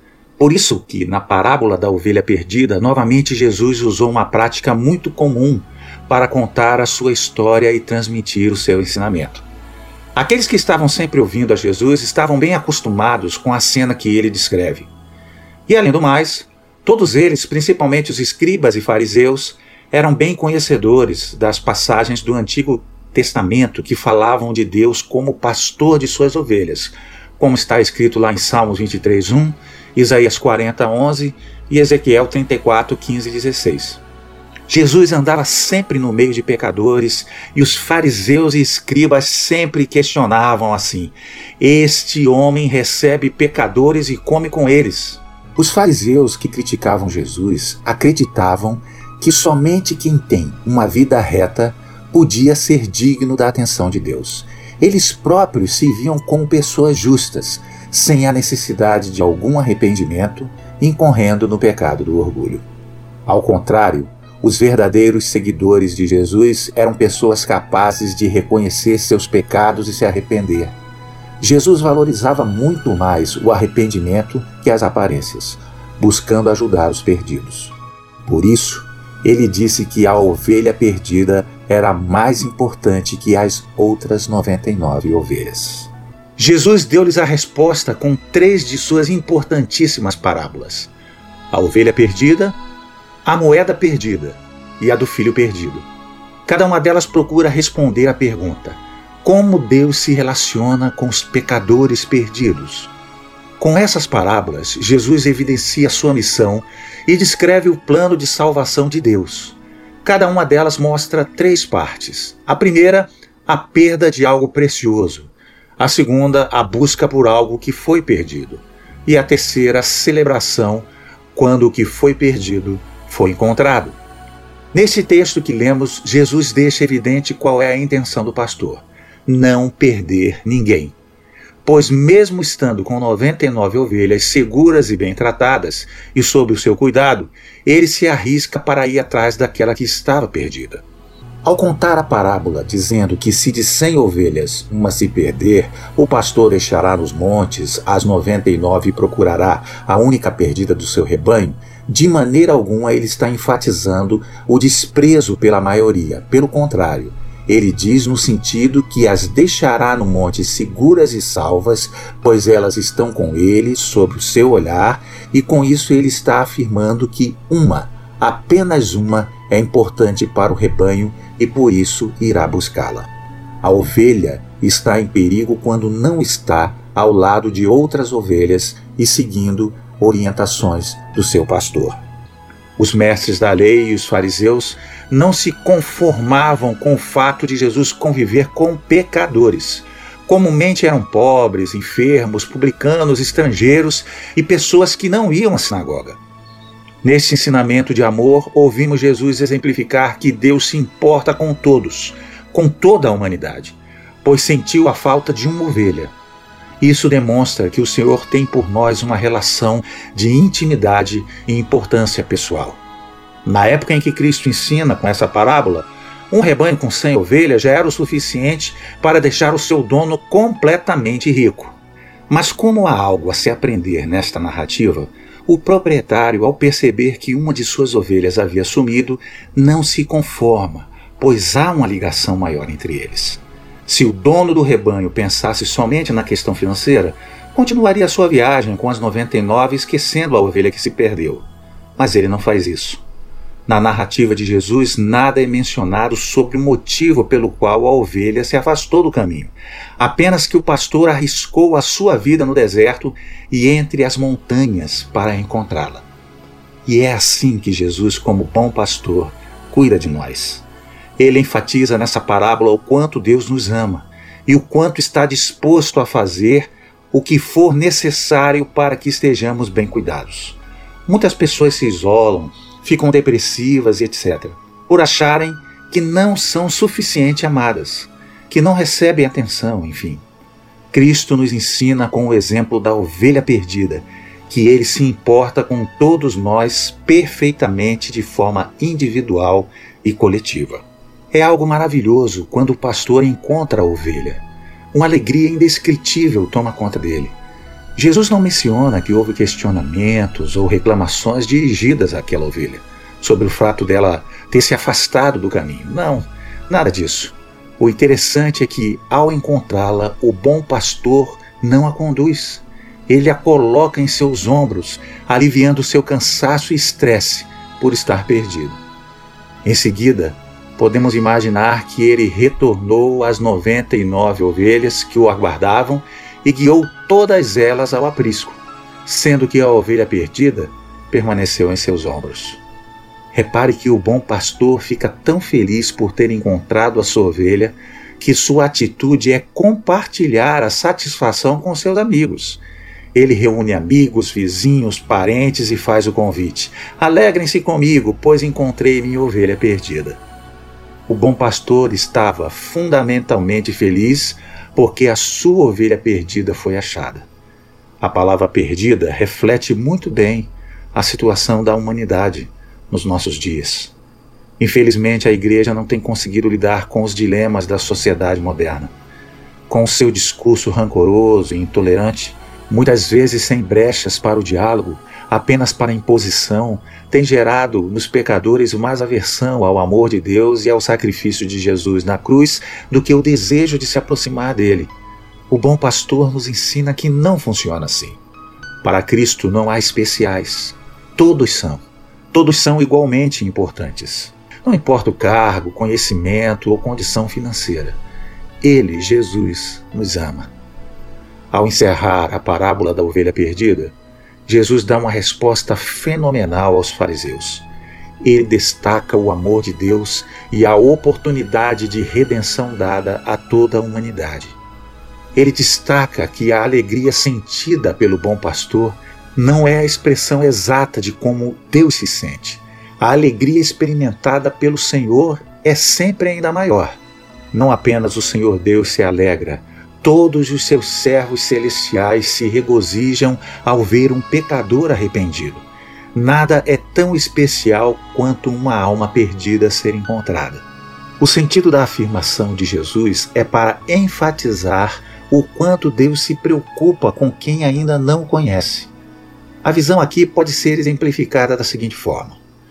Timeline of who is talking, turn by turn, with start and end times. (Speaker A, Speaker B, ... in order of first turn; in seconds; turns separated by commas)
Speaker A: 0.4-9.4, Speaker A: 10.1-14.9, Speaker A: 15.7-34.0, Speaker A: 34.7-62.6, Speaker A: 63.3-70.8, Speaker A: 71.4-77.7, Speaker A: 78.2-90.9, Speaker A: 91.5-92.6, Speaker A: 93.2-95.9, Speaker A: 96.5-102.9, Speaker A: 103.6-124.0, Speaker A: 124.7-130.9, Speaker A: 131.6-140.8, Speaker A: 141.4-173.1, Speaker A: 173.6-182.0, Speaker A: 182.8-196.2, Speaker A: 197.0-206.1, Speaker A: 206.8-212.8, Speaker A: 213.4-221.8, Speaker A: 222.3-243.0, Speaker A: 243.7-256.1, Speaker A: 256.9-260.6, Speaker A: 261.2-280.2, Speaker A: 280.9-297.3, Speaker A: 297.9-318.8, Speaker A: 319.6-332.6, Speaker A: 333.3-342.6, Speaker A: 343.1-350.2, Speaker A: 351.1-357.3, Speaker A: 358.0-363.9, Speaker A: 364.6-368.9, Speaker A: 369.7-384.9, Speaker A: 385.5-388.2, Speaker A: 388.8-398.0, Speaker A: 398.6-400.5, Speaker A: 401.5-403.9, Speaker A: 404.4-407.6, Speaker A: 408.2-414.6, Speaker A: 415.3-427.0, Speaker A: 427.5-440.6, Speaker A: 441.2-448.9, Speaker A: 449.6-452.4